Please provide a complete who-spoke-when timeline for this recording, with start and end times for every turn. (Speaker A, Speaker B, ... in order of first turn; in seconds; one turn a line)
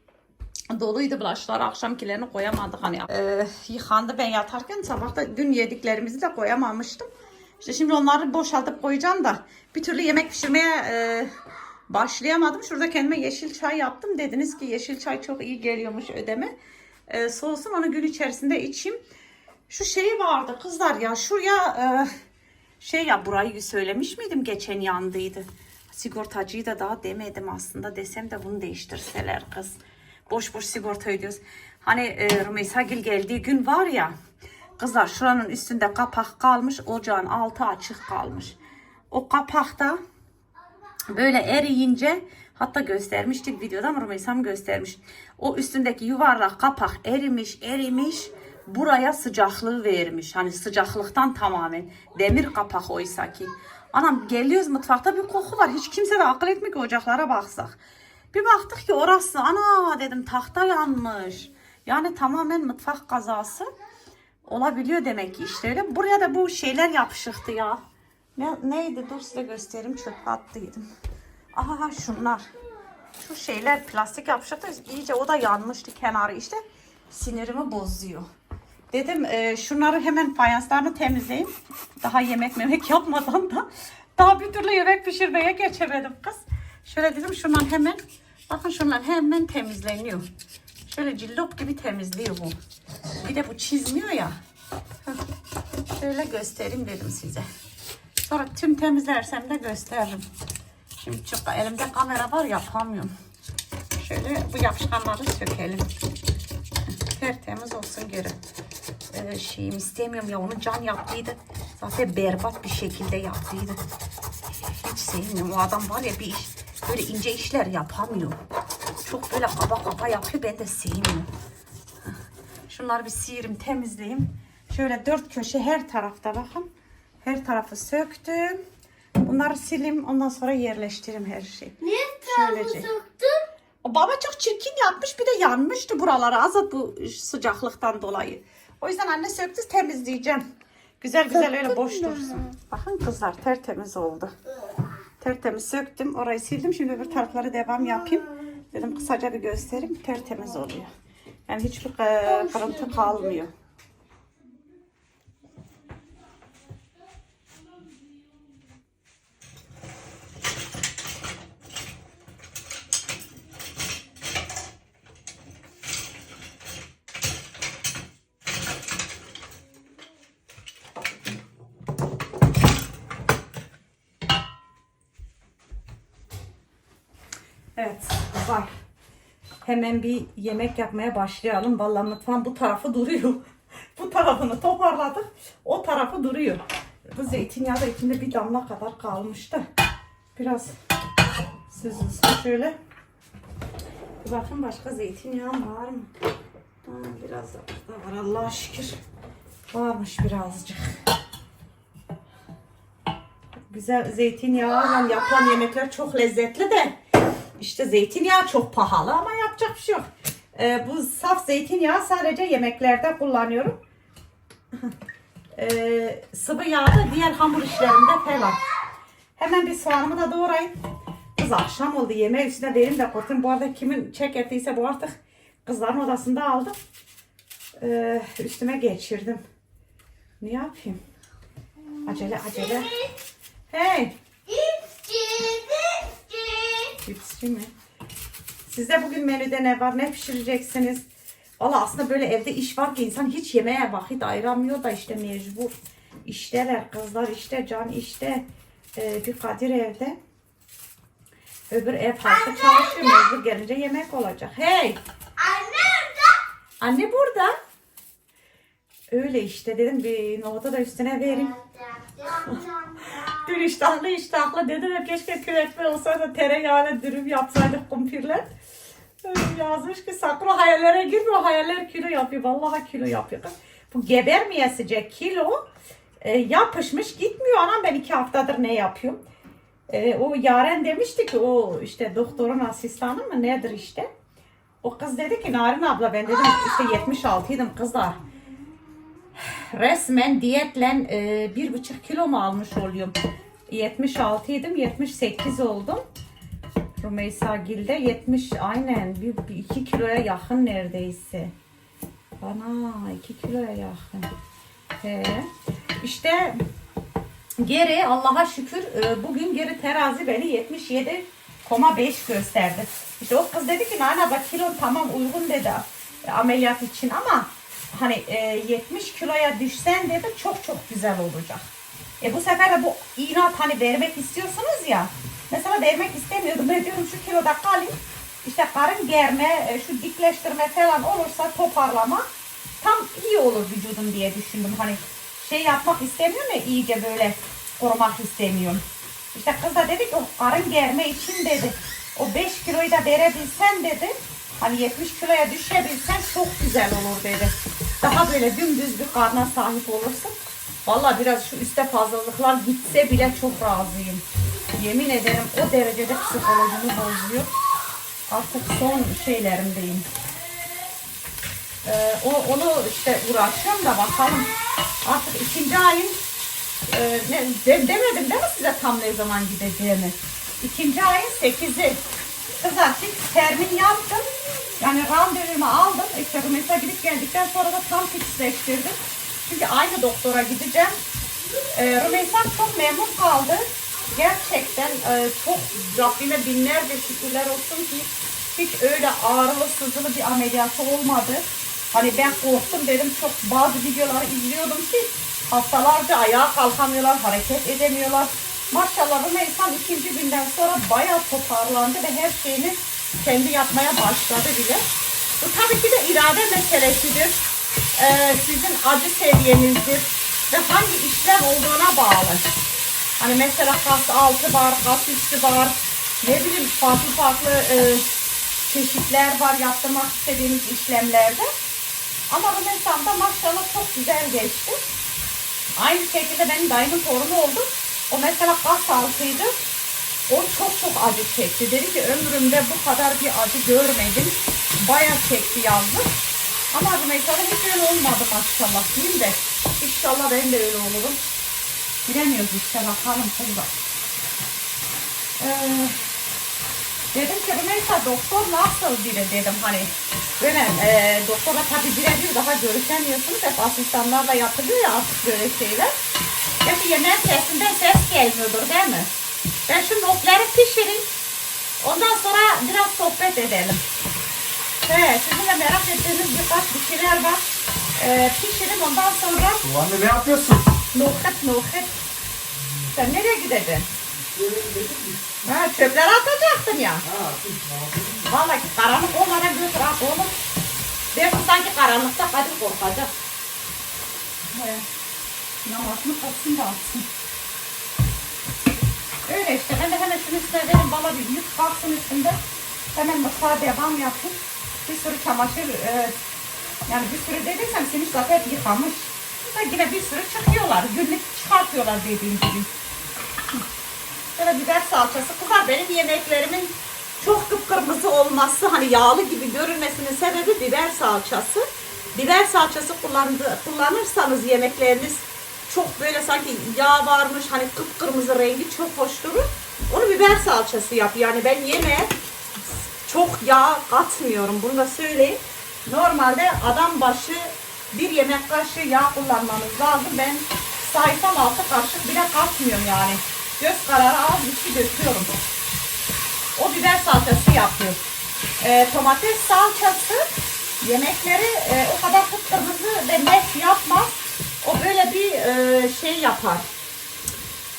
Speaker A: 0.7-7.1
Speaker A: 7.6-11.3
Speaker A: 11.9-16.5
Speaker A: 17.1-19.0
Speaker A: 19.7-22.1
Speaker A: 22.8-29.8
Speaker A: 30.3-34.1
Speaker A: 34.8-38.5
Speaker A: 39.1-40.0
Speaker A: 41.1-57.8
Speaker A: 58.3-63.7
Speaker A: 64.5-67.8
Speaker A: 68.4-70.9
Speaker A: 71.5-72.5
Speaker A: 73.2-78.3
Speaker A: 78.9-83.7
Speaker A: 84.2-90.3
Speaker A: 90.9-92.6
Speaker A: 93.2-94.4
Speaker A: 95.9-97.5
Speaker A: 98.2-100.3
Speaker A: 101.0-103.2
Speaker A: 104.0-105.9
Speaker A: 106.9-108.4
Speaker A: 109.1-113.8
Speaker A: 114.6-118.4
Speaker A: 119.0-121.3
Speaker A: 122.7-126.7
Speaker A: 127.2-128.6
Speaker A: 129.2-132.9
Speaker B: 131.8-133.5
Speaker A: 133.8-140.5
Speaker A: 141.0-144.3
Speaker B: 141.3-142.5
Speaker A: 145.2-150.9
Speaker A: 151.5-153.5
Speaker B: 152.2-153.4
Speaker A: 177.8-178.7
Speaker A: 179.6-183.4
Speaker A: 184.0-189.6
Speaker A: 190.4-190.7
Speaker A: 191.7-192.8
Speaker A: 194.2-196.1
Speaker A: 196.8-199.0
Speaker A: 199.7-200.9
Speaker A: 203.7-207.0
Speaker A: 207.6-213.8
Speaker A: 215.6-218.6
Speaker A: 219.4-220.8
Speaker A: 221.4-226.7
Speaker A: 227.8-229.4
Speaker A: 230.4-231.0
Speaker A: 232.1-232.9
Speaker B: 232.1-233.1
Speaker A: 233.7-234.2
Speaker B: 234.5-237.0
Speaker A: 237.1-237.7
Speaker A: 238.7-241.1
Speaker A: 241.6-245.7
Speaker A: 246.2-248.4
Speaker A: 249.0-250.2
Speaker A: 251.7-255.0
Speaker B: 252.3-253.2
Speaker B: 255.4-256.4
Speaker A: 256.8-257.6
Speaker A: 259.1-261.6
Speaker B: 261.3-263.6
Speaker A: 263.2-268.5
Speaker A: 269.2-275.6
Speaker A: 276.2-279.2
Speaker A: 279.9-284.1
Speaker A: 284.8-288.2
Speaker A: 289.4-293.2
Speaker A: 293.7-296.0
Speaker A: 297.0-301.5
Speaker A: 302.4-304.3
Speaker A: 305.0-305.5
Speaker A: 306.0-306.6
Speaker A: 307.6-321.6
Speaker A: 322.2-332.3
Speaker A: 332.8-338.8
Speaker A: 339.3-350.4
Speaker A: 350.9-354.2
Speaker A: 354.8-357.5
Speaker A: 358.3-360.1
Speaker A: 361.8-364.5
Speaker A: 365.0-366.2
Speaker A: 366.9-372.0
Speaker A: 372.6-374.3
Speaker A: 374.8-381.0
Speaker A: 381.7-404.8
Speaker A: 405.4-407.4
Speaker A: 407.9-412.6
Speaker A: 413.2-418.1
Speaker A: 418.6-421.5
Speaker A: 422.3-424.8
Speaker A: 425.8-429.5
Speaker A: 430.3-436.1
Speaker A: 436.7-441.2
Speaker A: 442.1-443.7
Speaker A: 445.4-446.0
Speaker A: 447.1-455.9
Speaker A: 456.6-459.1
Speaker A: 459.7-461.1
Speaker A: 461.8-463.8
Speaker A: 464.8-467.5
Speaker A: 468.0-469.6
Speaker C: 469.6-470.7
Speaker A: 470.9-471.9
Speaker A: 472.9-473.9
Speaker C: 474.1-475.5
Speaker A: 475.5-477.1
Speaker C: 477.0-478.3
Speaker A: 478.3-480.3
Speaker A: 481.1-483.1
Speaker A: 484.5-484.9
Speaker A: 485.6-487.1
Speaker A: 489.3-492.4
Speaker A: 492.9-496.2
Speaker A: 496.9-502.7
Speaker A: 504.3-522.1
Speaker A: 523.0-535.3
Speaker A: 536.6-538.0
Speaker A: 538.6-540.3
Speaker A: 540.8-546.6